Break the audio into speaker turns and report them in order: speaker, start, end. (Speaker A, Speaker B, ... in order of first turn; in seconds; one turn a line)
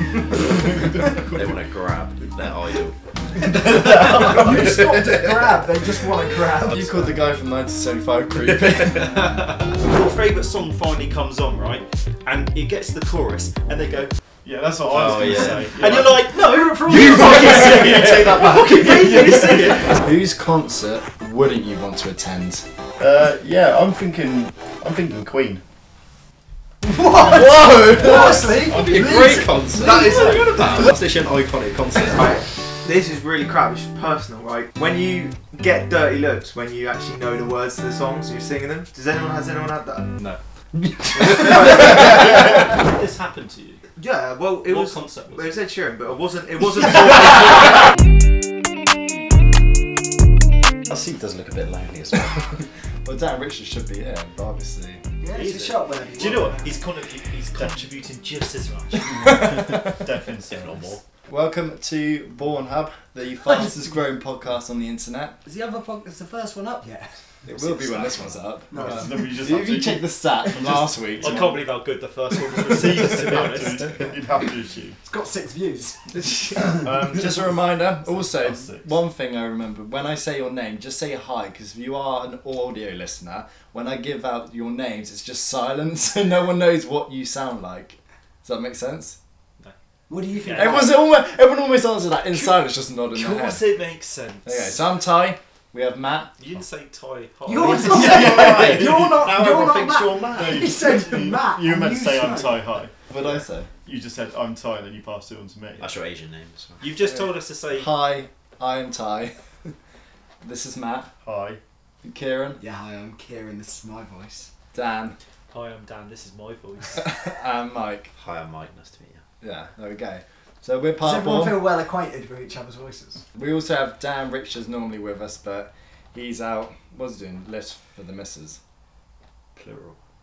Speaker A: 0.5-5.1
Speaker B: 3.5-7.2
Speaker C: 6.6-9.3
Speaker D: 8.8-14.1
Speaker E: 14.4-16.3
Speaker A: 14.9-15.8
Speaker D: 15.8-20.0
Speaker E: 16.9-19.6
Speaker B: 17.0-19.6
Speaker C: 19.9-22.6
Speaker E: 23.0-25.6
Speaker B: 26.8-29.7
Speaker C: 27.2-28.5
Speaker A: 28.1-32.3
Speaker E: 28.2-29.5
Speaker F: 29.8-30.9
Speaker F: 32.1-40.1
Speaker D: 41.2-43.9
Speaker A: 41.2-41.8
Speaker F: 44.0-47.9
Speaker D: 44.7-45.6
Speaker A: 50.9-52.5
Speaker C: 53.0-55.0
Speaker B: 55.2-56.8
Speaker D: 55.3-59.1
Speaker E: 59.0-61.0
Speaker C: 59.1-60.0
Speaker A: 60.5-61.0
Speaker C: 61.3-65.4
Speaker B: 65.5-67.1
Speaker A: 67.5-68.4
Speaker C: 67.5-71.6
Speaker B: 68.7-69.4
Speaker E: 68.7-71.6
Speaker D: 71.2-73.9
Speaker E: 72.6-75.0
Speaker B: 75.0-77.0
Speaker C: 76.7-89.2
Speaker E: 76.8-79.0
Speaker B: 90.1-91.0
Speaker D: 90.3-90.9
Speaker C: 90.5-93.7
Speaker D: 93.1-94.8
Speaker C: 94.5-96.3
Speaker D: 96.4-98.6
Speaker B: 97.5-102.7
Speaker A: 97.7-100.4
Speaker E: 97.8-99.6
Speaker E: 100.3-105.9
Speaker C: 103.1-103.7
Speaker A: 105.8-106.8
Speaker D: 106.8-108.0
Speaker C: 107.7-109.3
Speaker C: 110.4-111.1
Speaker E: 111.2-111.6
Speaker C: 112.0-112.6
Speaker B: 112.6-114.5
Speaker C: 114.7-115.2
Speaker D: 115.5-117.1
Speaker C: 117.0-118.1
Speaker A: 118.1-119.2
Speaker C: 119.4-121.6
Speaker B: 121.0-123.2
Speaker C: 123.3-128.6
Speaker A: 129.6-129.9